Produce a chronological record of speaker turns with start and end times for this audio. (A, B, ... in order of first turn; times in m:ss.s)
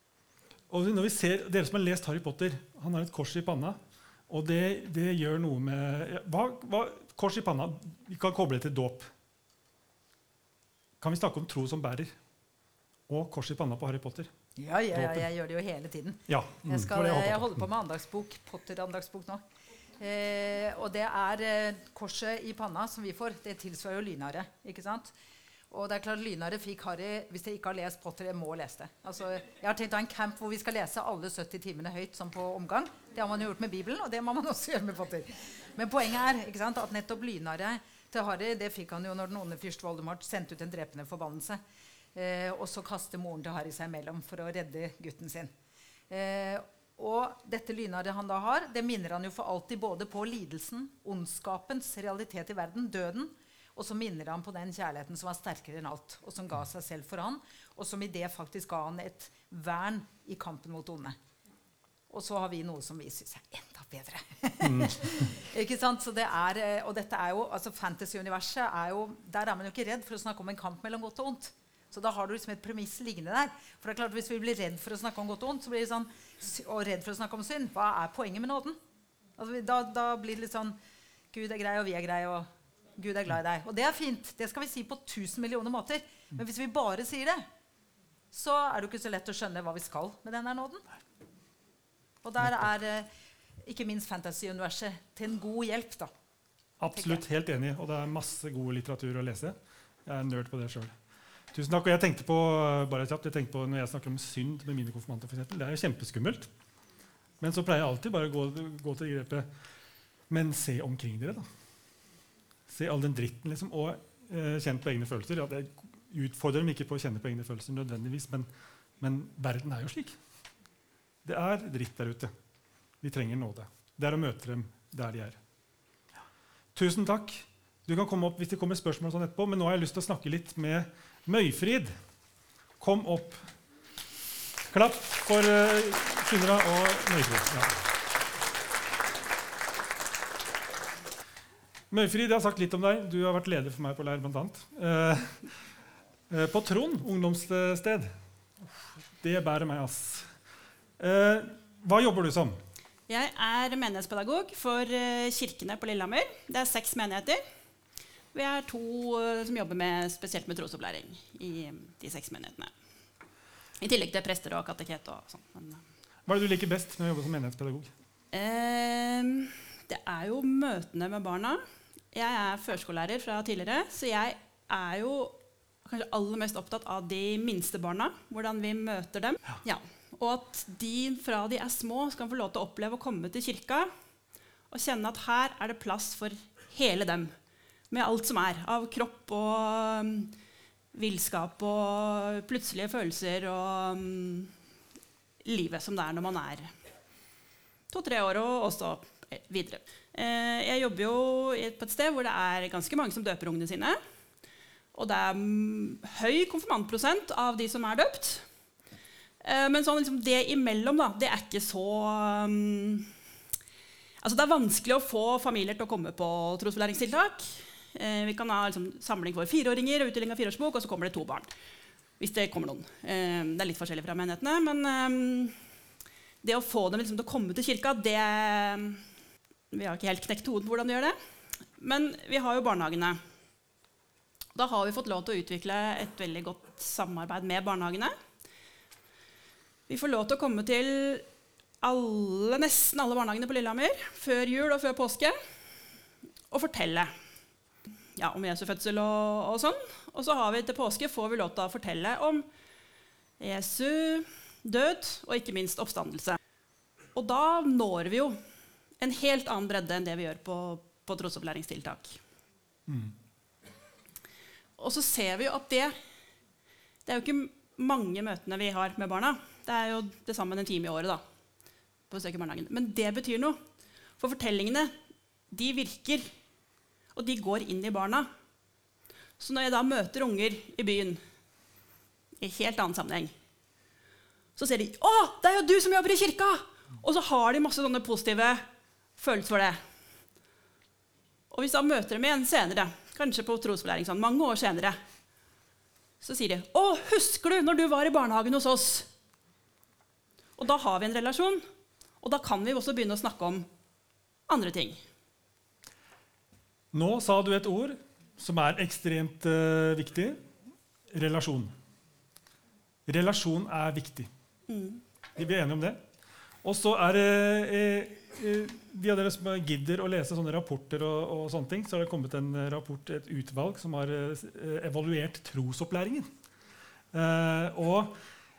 0:00.7-0:03.8 A
0:04.3-0:09.1 A
0:11.0-0:12.1 A
0:13.1-0:14.3 A
0:14.6-0:19.4 B
0:14.9-0:15.3 A
0:16.3-0:17.6 A
0:20.0-0:25.1 B
0:25.7-0:41.6 B
0:42.2-0:45.5 B
0:46.1-1:01.2 B
1:02.1-1:18.8 B
1:04.6-1:05.3 A
1:19.4-1:20.8 B
1:21.3-1:27.5 B
1:28.3-1:30.8 B
1:32.2-1:33.1 B
1:33.6-1:36.1 B
1:36.8-1:40.9 A
1:41.5-1:46.5 A
1:47.4-1:49.5 A
1:50.3-1:51.5 A
1:52.7-1:58.5 A
1:59.0-2:00.2 A
2:01.2-2:02.3 A
2:03.0-2:05.4 A
2:06.8-2:11.9 A
2:12.8-2:13.4 A
2:14.7-2:17.8 A
2:21.9-2:25.5 A
2:26.3-2:28.1 A
2:29.2-2:30.3 A
2:31.0-2:32.6 A
2:33.1-2:37.4 C
2:38.3-2:42.7 C
2:43.8-2:45.8 C
2:46.3-2:47.9 A
2:48.3-3:03.9 C
3:04.7-3:07.3 C
3:07.9-3:10.3 C
3:10.9-3:14.5 C
3:15.4-3:16.7 C
3:17.9-3:24.0 C
3:24.9-3:28.4 C
3:29.4-3:33.1 C
3:34.2-3:41.5 C
3:42.2-3:45.6 C
3:46.4-3:49.0 C
3:49.7-3:51.2 C
3:51.8-3:53.2 C
3:54.6-3:58.2 C
3:59.9-4:01.3 C
4:01.8-4:05.4 C
4:06.5-4:07.1 C
4:08.2-4:12.5 C
4:13.4-4:16.4 C
4:17.2-4:18.4 C
4:19.0-4:22.2 C
4:22.9-4:23.2 A
4:24.8-4:26.0 C
4:27.1-4:31.2 C
4:32.1-4:33.6 C
4:34.2-4:34.9 C
4:35.5-4:36.3 C
4:37.2-4:38.3 C
4:39.4-4:41.2 C
4:42.4-4:43.3 C
4:44.6-4:48.6 C
4:49.2-4:49.8 C
4:51.5-4:55.0 C
4:56.2-4:59.1 C
5:00.6-5:01.6 C
5:02.2-5:03.7 C
5:04.5-5:05.0 C
5:06.9-5:10.4 A
5:11.1-5:11.7 A
5:13.1-5:14.3 A
5:14.7-5:15.0 C
5:15.4-5:16.0 A
5:16.6-5:26.3 A
5:27.1-5:28.2 A